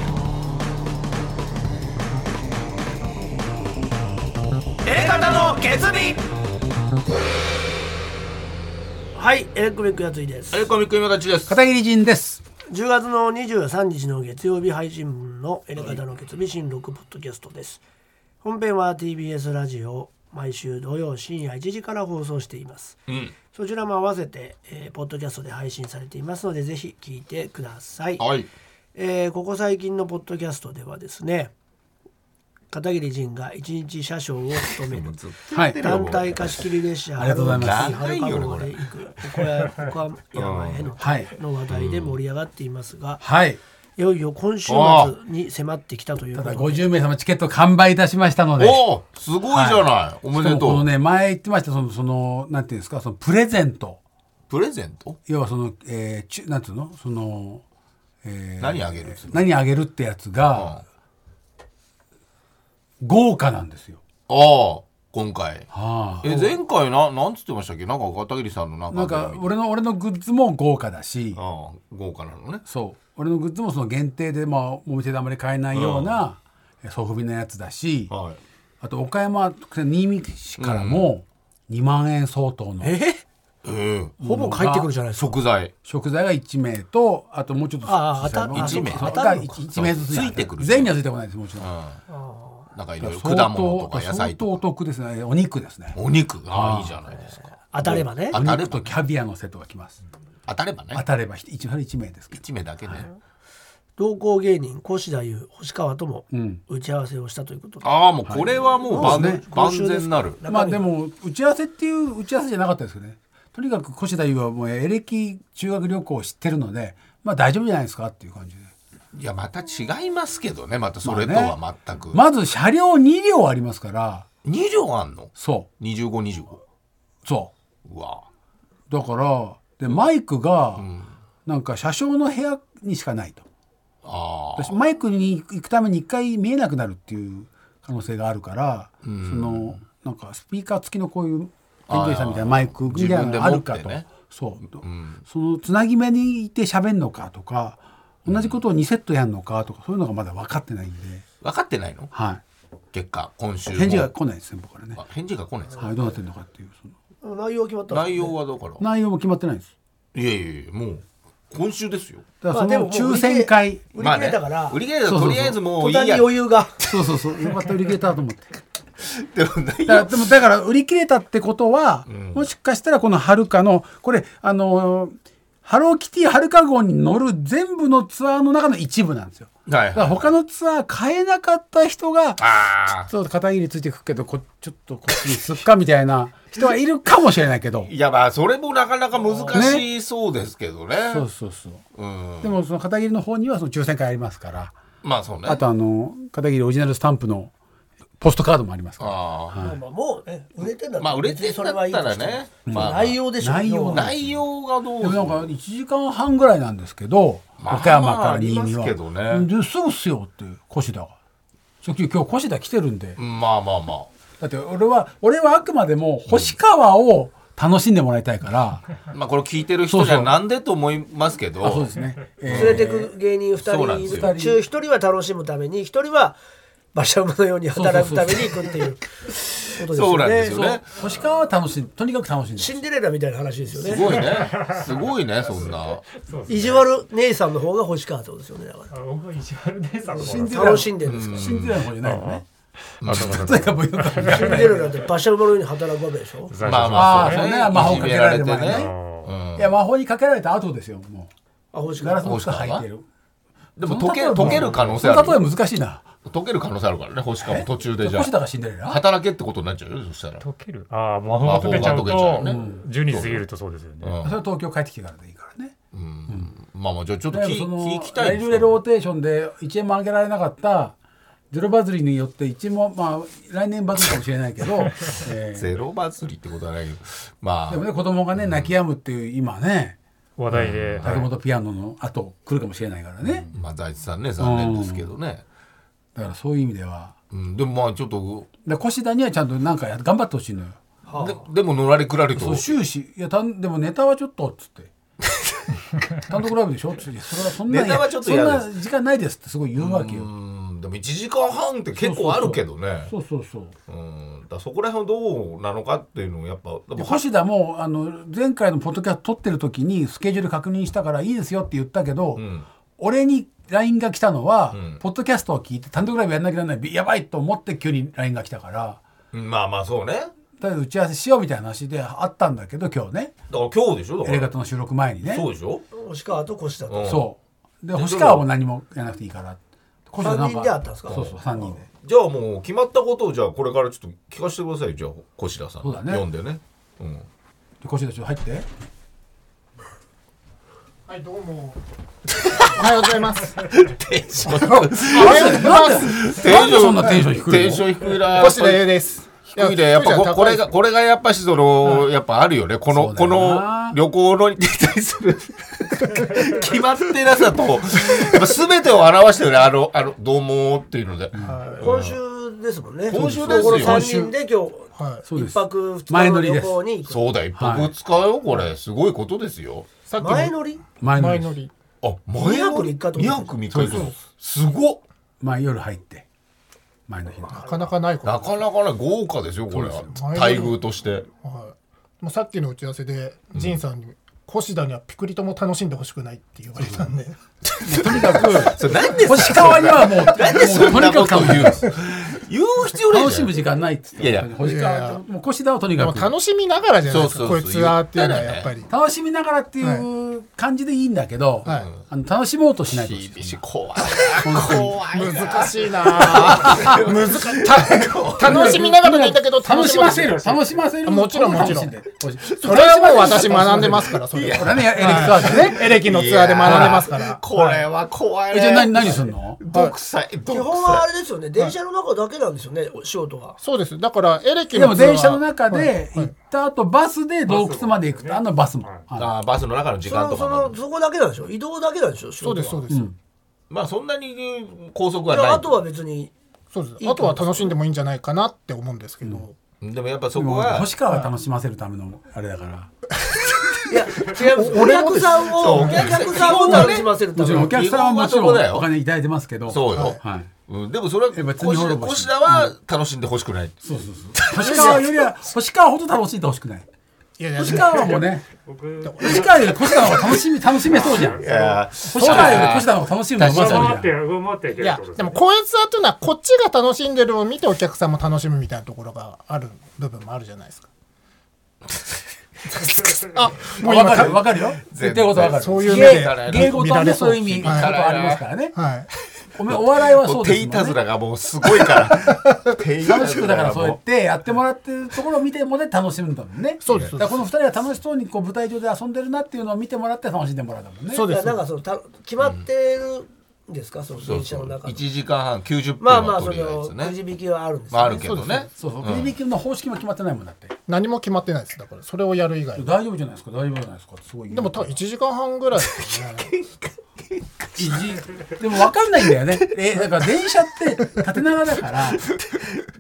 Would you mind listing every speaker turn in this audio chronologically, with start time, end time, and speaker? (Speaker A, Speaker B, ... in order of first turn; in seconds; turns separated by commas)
Speaker A: 4.8-6.2, Speaker A: 9.1-10.6, Speaker B: 10.5-11.5, Speaker C: 11.5-12.4, Speaker A: 12.7-17.8, Speaker A: 18.4-23.0, Speaker B: 23.1-23.3, Speaker A: 23.5-28.2, Speaker B: 28.2-28.5, Speaker A: 28.9-31.5, Speaker A: 32.7-35.2, Speaker B: 34.8-36.7, Speaker C: 35.5-35.8, Speaker A: 35.8-43.2, Speaker C: 37.2-37.9, Speaker B: 37.4-38.8, Speaker B: 40.3-40.9, Speaker C: 41.0-41.3, Speaker B: 41.7-42.2, Speaker C: 43.2-43.6, Speaker A: 44.0-46.9, Speaker B: 44.7-45.1, Speaker C: 46.3-48.9, Speaker B: 48.6-50.9, Speaker C: 49.5-54.0, Speaker B: 54.5-55.2, Speaker C: 55.3-57.6, Speaker C: 58.2-60.8, Speaker B: 58.6-59.4, Speaker B: 60.5-60.8, Speaker C: 63.0-64.0, Speaker B: 64.3-65.7, Speaker C: 65.7-66.6, Speaker B: 66.2-69.5, Speaker C: 68.9-71.4, Speaker B: 71.3-72.6, Speaker C: 72.7-78.1, Speaker B: 75.7-76.2, Speaker B: 78.1-78.4, Speaker C: 78.8-82.9, Speaker B: 80.6-81.1, Speaker A: 82.8-83.2, Speaker B: 83.6-84.2, Speaker C: 84.2-84.9, Speaker A: 84.2-85.3, Speaker B: 85.2-85.7, Speaker C: 85.8-91.7, Speaker A: 87.8-89.5, Speaker B: 88.5-91.0, Speaker B: 91.6-92.0, Speaker A: 92.1-92.6, Speaker B: 92.7-94.6, Speaker C: 93.0-97.0, Speaker B: 95.9-99.0, Speaker A: 97.7-98.4, Speaker C: 97.8-100.0, Speaker B: 100.5-101.0, Speaker C: 100.9-103.0, Speaker B: 102.3-103.1, Speaker A: 104.0-107.9, Speaker C: 106.3-106.6, Speaker B: 107.8-110.4, Speaker C: 108.2-109.4, Speaker A: 108.8-110.8, Speaker C: 110.5-118.7, Speaker B: 119.1-122.2, Speaker C: 121.0-121.5, Speaker C: 122.1-124.2, Speaker B: 124.4-126.6, Speaker C: 125.4-125.7, Speaker C: 127.2-127.5, Speaker B: 127.8-128.2, Speaker C: 128.9-130.9, Speaker B: 130.8-131.1, Speaker C: 131.4-133.4, Speaker B: 134.0-134.8, Speaker C: 134.6-151.2, Speaker B: 139.0-139.8, Speaker B: 141.9-144.1, Speaker B: 144.8-145.2, Speaker B: 148.2-148.6, Speaker B: 151.4-152.1, Speaker C: 152.1-152.4, Speaker B: 152.9-154.1, Speaker C: 153.7-155.0, Speaker B: 155.0-155.9, Speaker C: 155.8-156.9, Speaker A: 157.2-158.3, Speaker B: 157.9-158.8, Speaker C: 158.8-159.7, Speaker B: 160.1-162.3, Speaker C: 162.4-163.8, Speaker A: 162.5-164.8, Speaker B: 164.0-167.1, Speaker C: 165.1-165.6, Speaker A: 165.6-166.7, Speaker C: 166.9-168.5, Speaker B: 169.0-170.2, Speaker C: 169.9-182.4, Speaker B: 172.1-172.4, Speaker B: 179.7-180.3, Speaker B: 182.4-183.1, Speaker C: 183.0-187.9, Speaker B: 187.8-191.2, Speaker C: 189.5-189.8, Speaker C: 191.0-191.8, Speaker B: 191.9-192.6, Speaker C: 192.4-194.7, Speaker B: 195.0-195.6, Speaker C: 195.4-197.5, Speaker C: 198.2-199.8, Speaker B: 199.0-199.6, Speaker A: 199.6-204.1, Speaker B: 201.0-203.2, Speaker C: 202.7-204.2, Speaker B: 203.8-205.4, Speaker C: 205.0-211.1, Speaker B: 207.6-209.5, Speaker C: 211.8-213.2, Speaker B: 213.2-214.1, Speaker C: 214.4-218.9, Speaker B: 216.3-216.6, Speaker B: 219.1-221.9, Speaker C: 219.9-220.3, Speaker C: 221.6-223.1, Speaker B: 222.4-222.9, Speaker A: 222.5-226.4, Speaker B: 223.6-224.3, Speaker C: 224.1-224.6, Speaker A: 226.9-229.1, Speaker C: 227.7-228.5, Speaker A: 229.6-230.8, Speaker B: 229.8-230.8, Speaker C: 231.0-232.8, Speaker A: 232.6-234.2, Speaker B: 233.8-236.0, Speaker D: 234.2-235.0, Speaker D: 235.6-236.8, Speaker A: 236.5-238.9, Speaker D: 238.9-240.8, Speaker C: 240.2-242.4, Speaker A: 240.2-241.4, Speaker B: 241.0-241.7, Speaker D: 242.0-242.4, Speaker B: 243.0-243.4, Speaker D: 243.0-244.7, Speaker C: 243.1-244.9, Speaker A: 244.3-246.5, Speaker D: 246.5-249.3, Speaker B: 246.6-249.7, Speaker C: 246.9-248.9, Speaker C: 249.6-251.3, Speaker A: 251.7-252.3, Speaker C: 252.0-253.0, Speaker B: 252.2-252.8, Speaker B: 253.8-255.4, Speaker C: 253.8-256.0, Speaker D: 254.6-254.9, Speaker B: 256.2-258.3, Speaker C: 257.4-259.0, Speaker B: 258.9-260.4, Speaker D: 260.4-264.2, Speaker B: 261.4-263.4, Speaker C: 261.6-262.8, Speaker B: 264.0-264.3, Speaker C: 264.2-265.8, Speaker B: 265.9-268.7, Speaker C: 266.3-266.5, Speaker C: 267.3-270.9, Speaker C: 271.5-275.7, Speaker B: 275.5-278.7, Speaker C: 277.7-279.9, Speaker D: 280.4-281.3, Speaker C: 280.5-283.5, Speaker B: 280.6-281.3, Speaker B: 283.5-285.4, Speaker C: 284.4-285.1, Speaker C: 286.1-287.1, Speaker B: 287.3-288.5, Speaker C: 288.6-290.8, Speaker A: 291.1-291.4, Speaker B: 291.2-292.7, Speaker C: 292.4-294.9, Speaker C: 296.1-300.3, Speaker B: 297.7-298.7, Speaker B: 299.8-303.1, Speaker C: 302.0-303.7, Speaker B: 303.9-307.2, Speaker C: 306.9-312.4, Speaker B: 312.4-312.6, Speaker C: 313.0-319.0, Speaker B: 314.7-315.0, Speaker B: 319.3-320.3, Speaker C: 320.6-323.3, Speaker B: 323.5-324.5, Speaker C: 324.2-325.4, Speaker B: 325.2-325.8, Speaker A: 325.9-327.2, Speaker B: 326.9-327.3, Speaker C: 327.1-329.6, Speaker B: 327.9-328.4, Speaker C: 330.1-331.8, Speaker A: 330.2-331.2, Speaker B: 331.1-337.2, Speaker C: 335.8-336.2, Speaker C: 337.8-338.6, Speaker E: 341.1-341.8, Speaker B: 342.4-348.9, Speaker E: 342.6-343.6, Speaker E: 344.4-346.4, Speaker C: 345.1-347.9, Speaker E: 348.1-350.6, Speaker B: 349.5-362.2, Speaker C: 352.9-354.0, Speaker E: 361.4-361.9, Speaker A: 361.8-367.2, Speaker B: 363.1-364.1, Speaker C: 363.1-364.3, Speaker E: 364.9-365.2, Speaker C: 365.2-366.8, Speaker B: 367.1-369.9, Speaker C: 367.6-367.9, Speaker E: 370.1-371.7, Speaker A: 370.2-370.8, Speaker C: 371.0-371.6, Speaker B: 372.0-375.0, Speaker A: 372.4-373.6, Speaker C: 373.7-374.1, Speaker C: 375.4-376.2, Speaker C: 377.1-377.6, Speaker E: 377.5-378.6, Speaker B: 378.2-381.2, Speaker C: 379.7-380.1, Speaker E: 380.1-380.8, Speaker E: 381.4-388.6, Speaker C: 387.8-391.9, Speaker B: 388.4-393.5, Speaker C: 393.1-396.3, Speaker B: 394.2-394.6, Speaker E: 394.6-395.2, Speaker E: 395.9-398.9, Speaker B: 397.1-398.7, Speaker C: 398.9-403.6, Speaker E: 401.6-401.9, Speaker B: 401.6-402.0, Speaker B: 402.9-408.9, Speaker C: 404.4-404.9, Speaker E: 404.6-410.5, Speaker C: 408.4-415.8, Speaker D: 409.7-410.9, Speaker E: 411.0-411.9, Speaker B: 412.4-421.1, Speaker E: 412.6-417.8, Speaker C: 416.6-417.1, Speaker C: 418.5-419.6, Speaker A: 420.5-423.6, Speaker E: 423.6-426.3, Speaker C: 424.7-429.3, Speaker D: 427.4-429.1, Speaker B: 429.1-430.8, Speaker A: 430.1-432.8, Speaker E: 432.4-433.1, Speaker C: 432.9-433.1, Speaker B: 433.7-435.8, Speaker A: 435.3-436.3, Speaker E: 436.7-439.6, Speaker A: 437.0-437.8, Speaker B: 439.8-440.9, Speaker C: 440.3-442.9, Speaker A: 443.9-447.7, Speaker E: 444.3-446.9, Speaker B: 445.5-448.9, Speaker C: 447.4-450.5, Speaker B: 449.7-453.8, Speaker E: 449.9-450.2, Speaker C: 451.3-452.7, Speaker C: 453.8-456.9, Speaker B: 454.3-455.1, Speaker E: 454.6-455.1, Speaker E: 457.4-458.2, Speaker C: 457.6-458.4, Speaker D: 458.6-459.5, Speaker E: 459.0-459.9, Speaker C: 459.2-461.4, Speaker D: 460.8-462.4, Speaker B: 461.4-463.9, Speaker C: 462.0-464.1, Speaker E: 462.2-462.8, Speaker D: 463.4-465.4, Speaker E: 464.7-470.9, Speaker E: 472.7-474.6, Speaker D: 473.0-473.3, Speaker C: 473.8-478.7, Speaker B: 474.9-476.9, Speaker E: 475.6-477.9, Speaker B: 477.6-478.4, Speaker E: 478.7-479.1, Speaker C: 479.6-481.0, Speaker B: 479.6-484.0, Speaker C: 483.0-491.3, Speaker E: 486.8-487.4, Speaker E: 491.1-491.6, Speaker A: 491.3-495.0, Speaker B: 494.2-497.1, Speaker A: 496.0-498.2, Speaker B: 497.9-499.3, Speaker E: 498.1-498.7, Speaker C: 498.8-500.8, Speaker E: 500.9-502.9, Speaker C: 502.8-505.0, Speaker E: 504.5-506.5, Speaker B: 505.8-508.1, Speaker C: 507.8-512.2, Speaker B: 509.4-510.0, Speaker B: 512.0-512.9